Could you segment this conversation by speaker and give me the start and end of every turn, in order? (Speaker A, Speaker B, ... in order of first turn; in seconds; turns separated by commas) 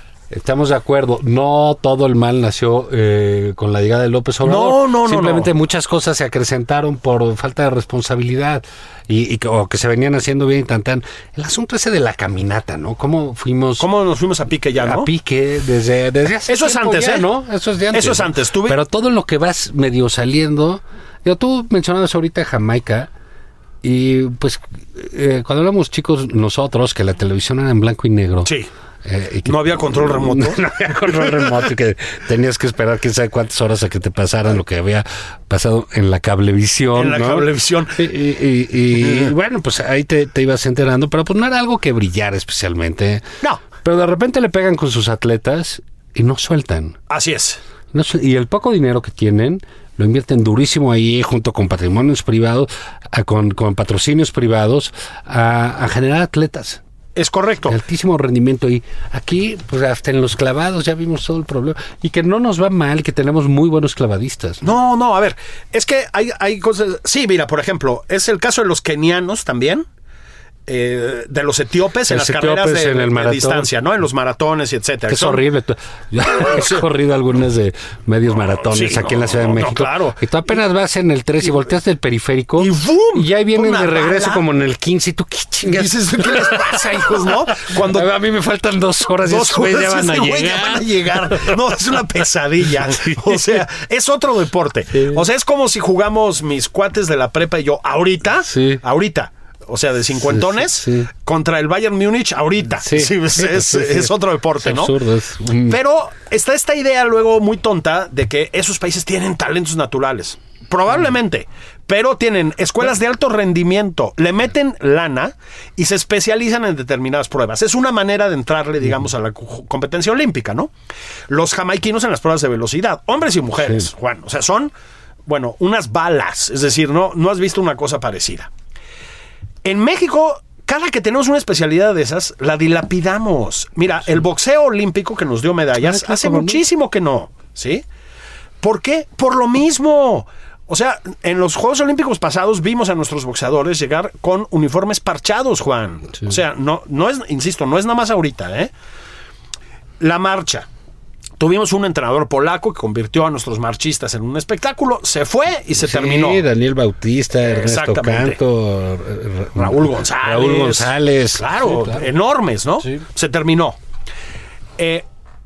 Speaker A: 0.3-13.9, Speaker B: 4.4-5.5, Speaker B: 13.8-15.1, Speaker A: 14.8-23.1, Speaker B: 16.5-17.3, Speaker B: 17.9-18.8, Speaker A: 23.8-28.5, Speaker A: 29.0-47.0, Speaker B: 29.5-30.6, Speaker B: 36.9-38.0, Speaker B: 47.1-47.6, Speaker A: 47.9-56.8, Speaker B: 57.2-57.8, Speaker A: 57.7-64.7, Speaker B: 64.6-69.9, Speaker B: 70.7-75.4, Speaker A: 72.1-73.7, Speaker A: 75.1-91.8, Speaker B: 76.3-76.8, Speaker B: 78.7-80.2, Speaker B: 82.6-84.4, Speaker B: 85.7-88.1, Speaker B: 89.2-105.0, Speaker A: 92.8-93.6, Speaker A: 95.0-95.2, Speaker A: 98.5-98.8, Speaker A: 100.2-101.1, Speaker A: 102.8-105.8, Speaker B: 105.7-120.7, Speaker B: 121.3-124.7, Speaker B: 125.3-128.5, Speaker B: 129.6-137.8, Speaker A: 135.8-136.6, Speaker B: 138.6-148.7, Speaker B: 150.0-150.7, Speaker B: 151.4-156.4, Speaker A: 155.8-162.1, Speaker B: 157.4-158.4, Speaker B: 159.6-163.8, Speaker B: 164.8-165.1